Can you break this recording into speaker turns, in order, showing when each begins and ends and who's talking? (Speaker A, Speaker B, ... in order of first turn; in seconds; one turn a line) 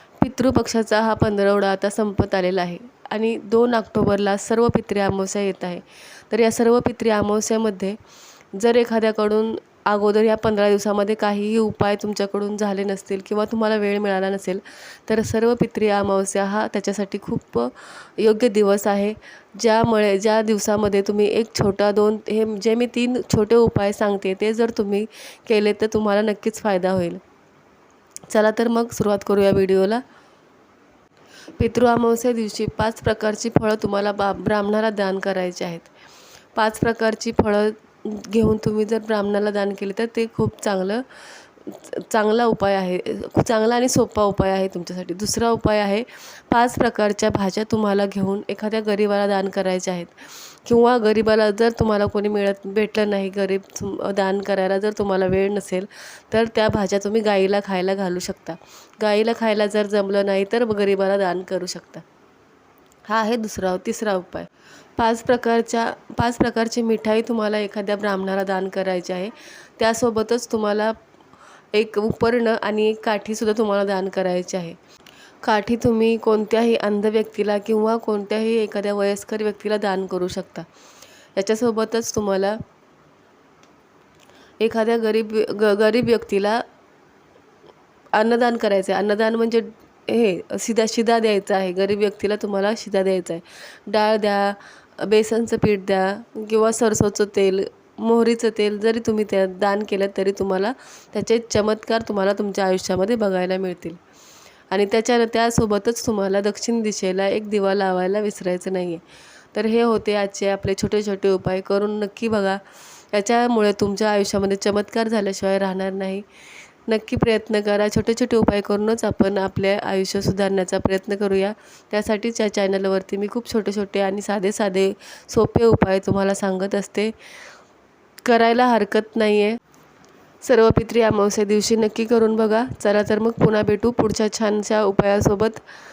Speaker A: 0.2-8.0
Speaker A: 8.5-27.2
Speaker A: 28.3-30.0
Speaker A: 31.6-35.9
Speaker A: 36.5-41.0
Speaker A: 41.6-62.0
Speaker A: 63.1-71.0
Speaker A: 71.7-74.8
Speaker A: 75.4-80.7
Speaker A: 81.3-82.6
Speaker A: 84.6-86.6
Speaker A: 88.1-104.0
Speaker A: 104.7-109.0
Speaker A: 109.5-112.6
Speaker A: 113.1-116.2
Speaker A: 116.9-127.1
Speaker A: 128.2-129.6
Speaker A: 130.4-135.6